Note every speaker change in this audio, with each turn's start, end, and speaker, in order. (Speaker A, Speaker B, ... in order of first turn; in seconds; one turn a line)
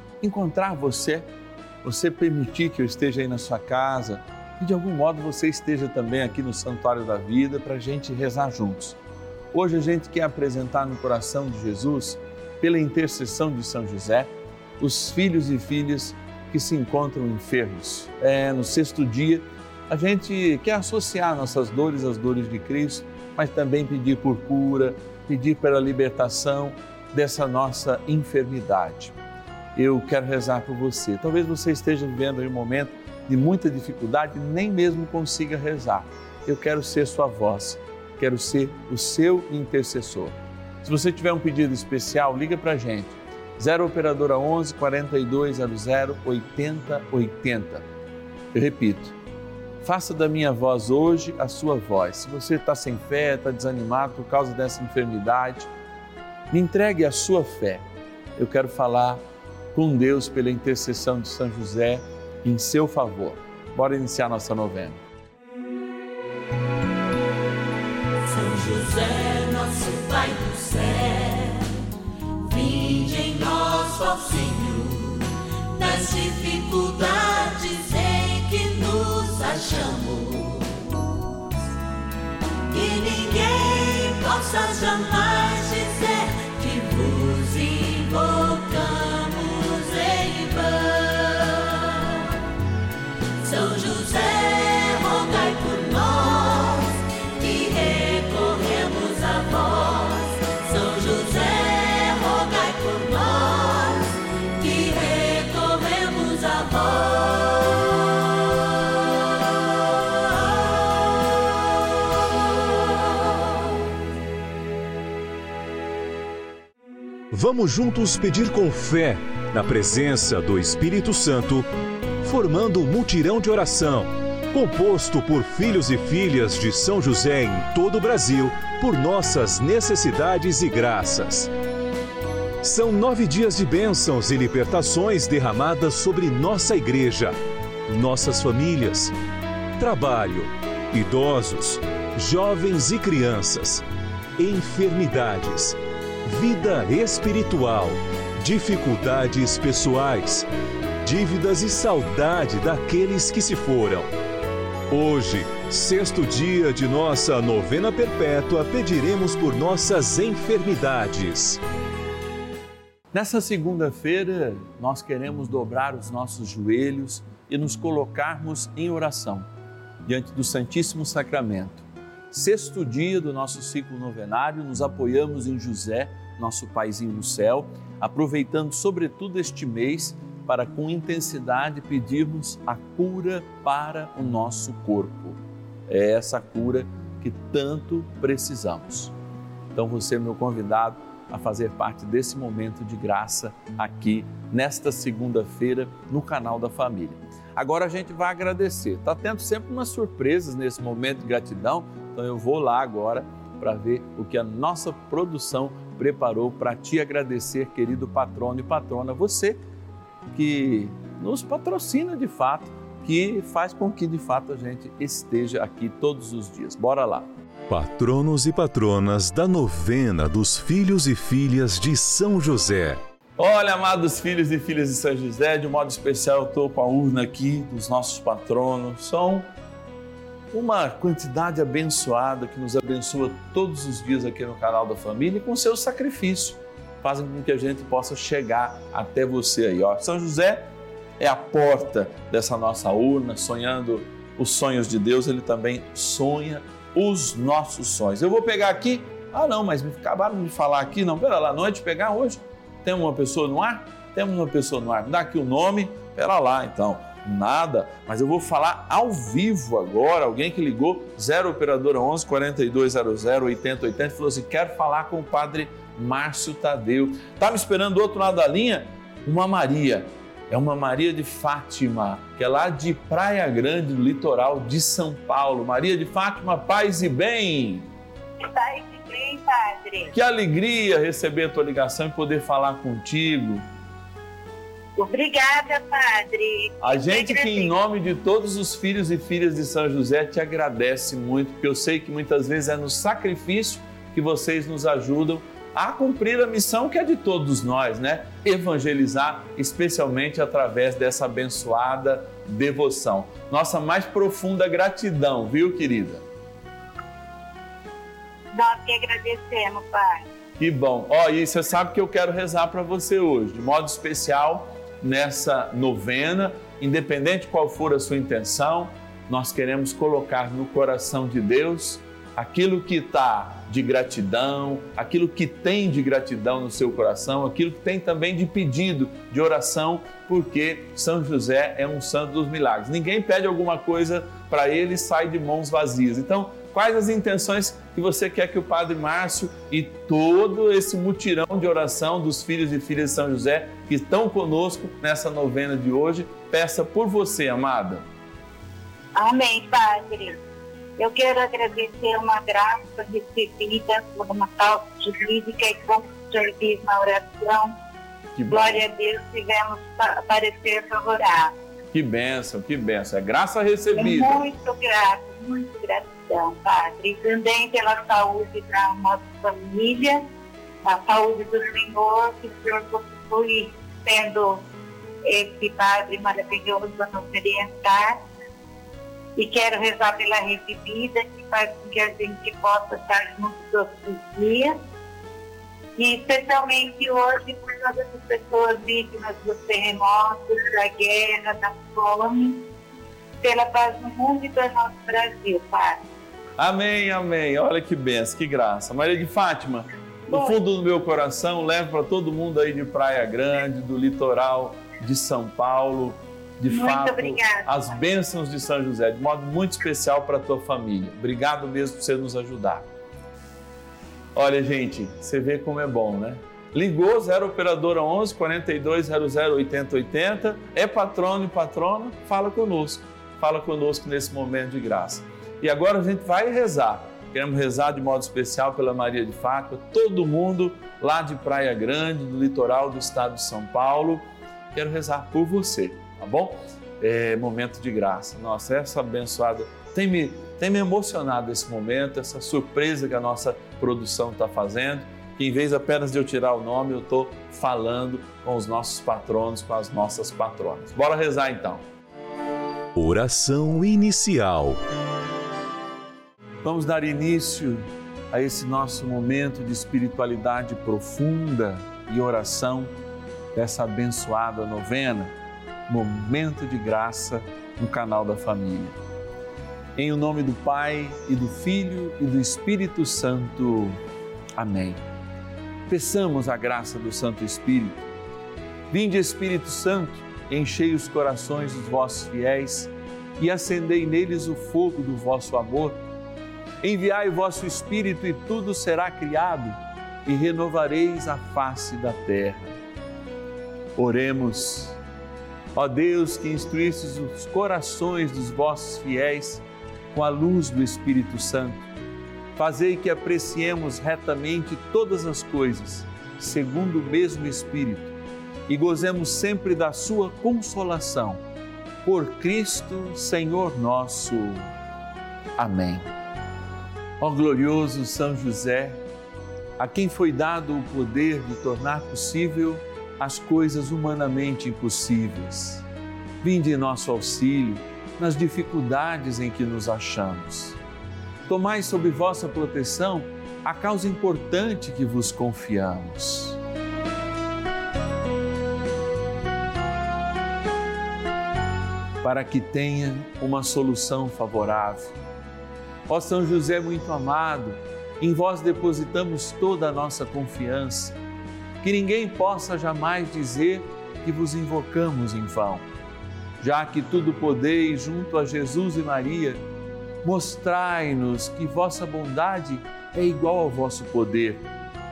Speaker A: 0.2-1.3
Speaker A: 1.8-9.0
Speaker A: 9.5-29.1
Speaker A: 29.8-47.9
Speaker A: 48.5-49.1
Speaker A: 49.8-55.7
Speaker A: 56.5-57.9
Speaker A: 58.4-59.2
Speaker A: 59.7-65.0
Speaker B: 68.2-71.8
Speaker B: 72.5-80.9
Speaker B: 82.7-92.4
Speaker B: 93.4-107.8
Speaker C: 117.3-121.7
Speaker C: 122.2-131.5
Speaker C: 132.6-137.4
Speaker C: 137.9-139.1
Speaker C: 139.8-143.8
Speaker C: 144.4-150.5
Speaker C: 151.0-154.1
Speaker C: 154.9-161.6
Speaker A: 163.1-169.5
Speaker A: 170.1-189.1
Speaker A: 189.7-209.6
Speaker A: 210.3-217.3
Speaker C: 217.7-223.0
Speaker A: 223.4-229.5
Speaker A: 230.5-240.7
Speaker A: 241.2-277.9
Speaker D: 278.4-280.1
Speaker A: 280.1-283.6
Speaker D: 285.0-287.7
Speaker A: 286.8-306.2
Speaker D: 308.5-310.2
Speaker A: 310.6-348.1
Speaker D: 349.2-350.4
Speaker D: 351.0-357.7
Speaker A: 358.4-358.8
Speaker D: 358.5-361.5
Speaker A: 361.9-364.4
Speaker D: 364.0-370.3
Speaker D: 370.9-374.6
Speaker D: 375.3-378.2
Speaker D: 379.4-384.8
Speaker D: 386.0-392.6
Speaker D: 393.4-396.0
Speaker A: 396.6-412.9
Speaker D: 406.7-407.7
Speaker A: 414.4-451.8
Speaker C: 452.9-454.8
Speaker A: 456.6-462.9
Speaker A: 463.5-465.3
Speaker A: 465.9-469.0
Speaker A: 470.0-474.0
Speaker A: 474.6-475.0
Speaker A: 475.9-478.1
Speaker A: 478.9-486.0
Speaker A: 486.8-492.8
Speaker A: 494.0-495.0
Speaker A: 495.8-501.9
Speaker A: 502.6-508.2
Speaker A: 508.7-511.4
Speaker A: 512.0-514.7
Speaker A: 515.6-516.1
Speaker A: 517.2-519.0
Speaker A: 519.8-525.9
Speaker A: 526.4-530.8
Speaker A: 531.5-536.6
Speaker A: 542.2-545.2
Speaker A: 546.1-551.2
Speaker A: 551.8-555.9
Speaker A: 556.6-559.6
Speaker A: 560.2-564.7